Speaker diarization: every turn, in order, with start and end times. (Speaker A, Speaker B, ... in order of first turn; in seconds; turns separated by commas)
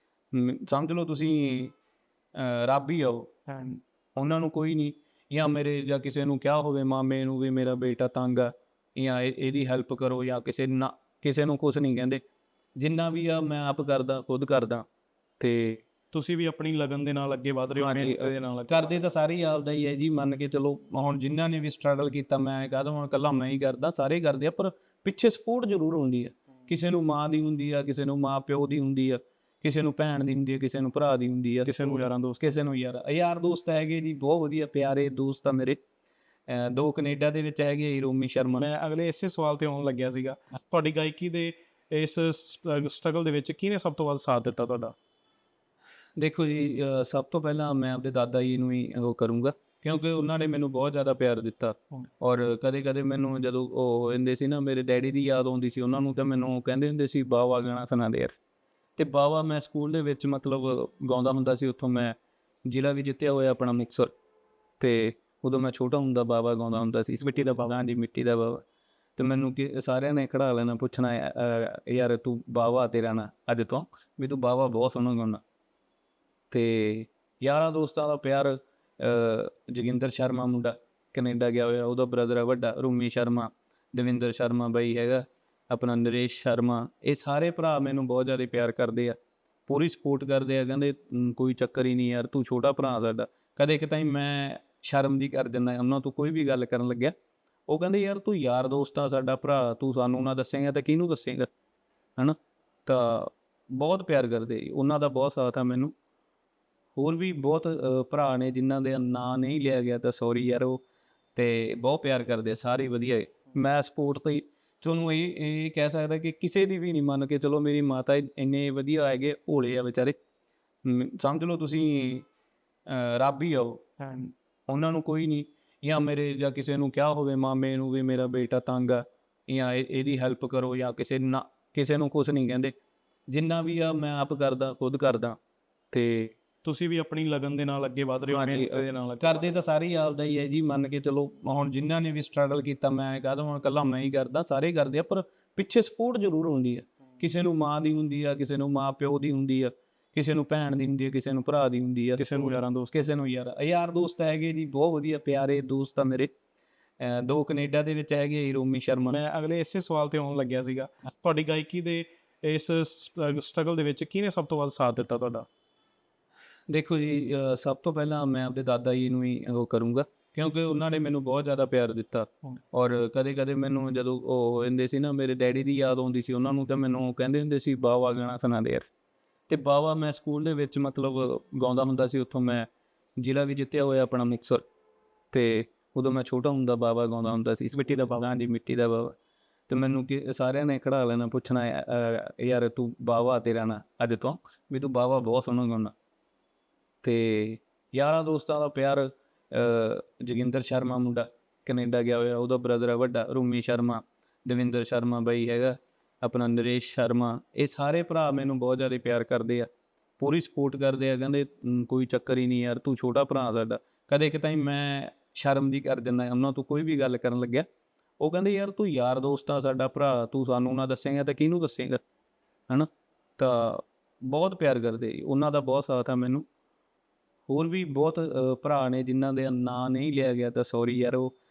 Speaker A: 0.3-1.7, Speaker A: 2.4-12.2, Speaker A: 12.8-14.8, Speaker A: 15.4-15.8, Speaker B: 16.1-18.9, Speaker A: 17.8-35.8, Speaker B: 31.6-32.4, Speaker A: 36.5-38.7, Speaker B: 38.6-45.0, Speaker A: 46.2-58.4, Speaker A: 59.0-62.1, Speaker A: 62.7-64.1, Speaker A: 64.8-68.6, Speaker B: 67.3-67.6, Speaker A: 69.2-75.4, Speaker A: 76.5-97.1, Speaker A: 97.7-101.5, Speaker A: 102.2-105.9, Speaker A: 107.0-110.8, Speaker A: 111.4-120.2, Speaker A: 120.8-122.2, Speaker A: 122.9-124.0, Speaker B: 124.0-124.3, Speaker A: 124.7-132.7, Speaker A: 133.3-135.4, Speaker A: 135.9-136.3, Speaker B: 136.6-139.5, Speaker A: 138.3-156.3, Speaker B: 152.2-152.9, Speaker A: 157.0-159.2, Speaker B: 159.1-165.5, Speaker A: 166.7-178.9, Speaker A: 179.5-184.6, Speaker A: 185.3-189.2, Speaker B: 187.8-188.2, Speaker A: 189.7-195.9, Speaker A: 197.0-217.7, Speaker A: 218.2-222.0, Speaker A: 222.7-226.4, Speaker A: 227.5-231.3